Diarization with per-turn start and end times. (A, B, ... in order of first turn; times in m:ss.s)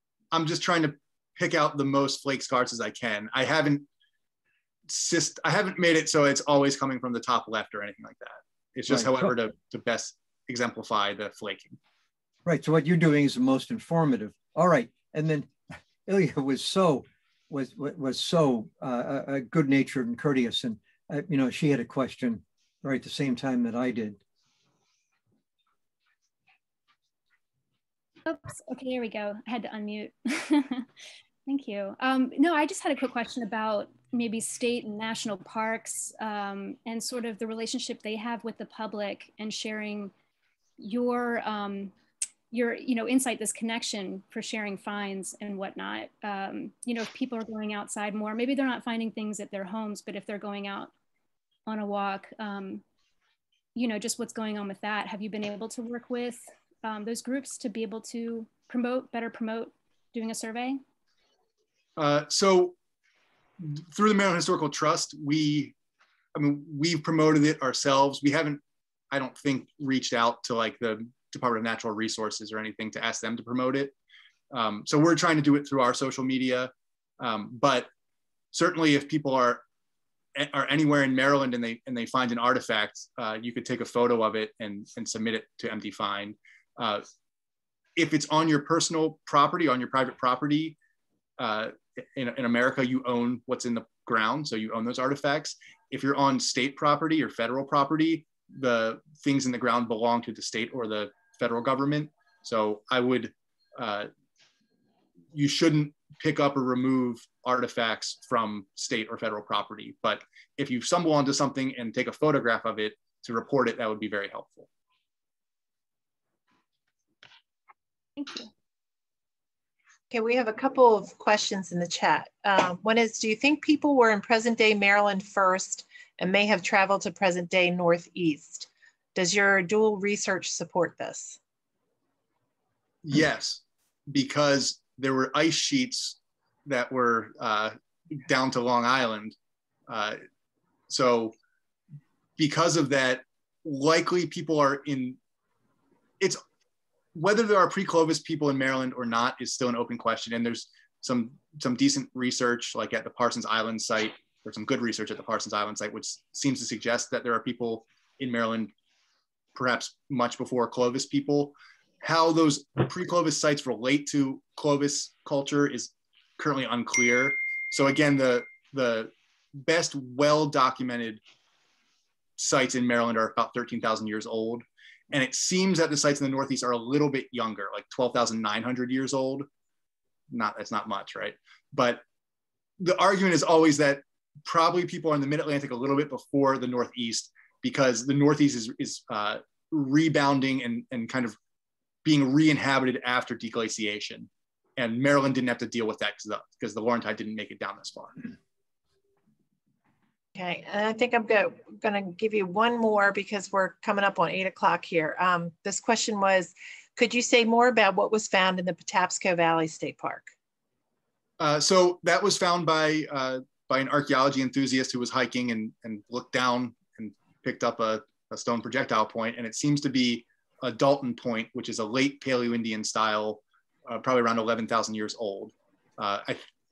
0:00.3-0:03.9 A
0:04.9-0:11.8 A
0:08.9-0:09.3 B
0:12.4-0:24.2 B
0:28.2-0:30.9 C
0:31.5-0:40.1 C
0:40.8-0:41.9 C
0:42.5-0:50.9 C
0:51.6-0:52.8 C
0:53.7-1:00.8 C
1:02.0-1:02.8 A
1:03.6-1:05.7 A
1:06.3-1:13.9 A
1:14.5-1:17.9 A
1:18.5-1:19.6 A
1:20.3-1:27.0 A
1:28.0-1:30.8 A
1:31.4-1:44.1 A
1:45.3-1:54.7 A
1:58.2-1:58.5 C
2:00.1-2:11.4 D
2:13.0-2:19.4 A
2:19.9-2:20.2 A
2:20.9-2:21.4 A
2:22.4-2:25.2 A
2:27.1-2:38.7 A
2:39.5-2:51.2 A
2:52.4-2:59.5 A
3:00.3-3:02.0 A
3:02.8-3:11.4 A
3:12.0-3:18.3 A
3:20.3-3:30.3 D
3:31.4-3:46.4 A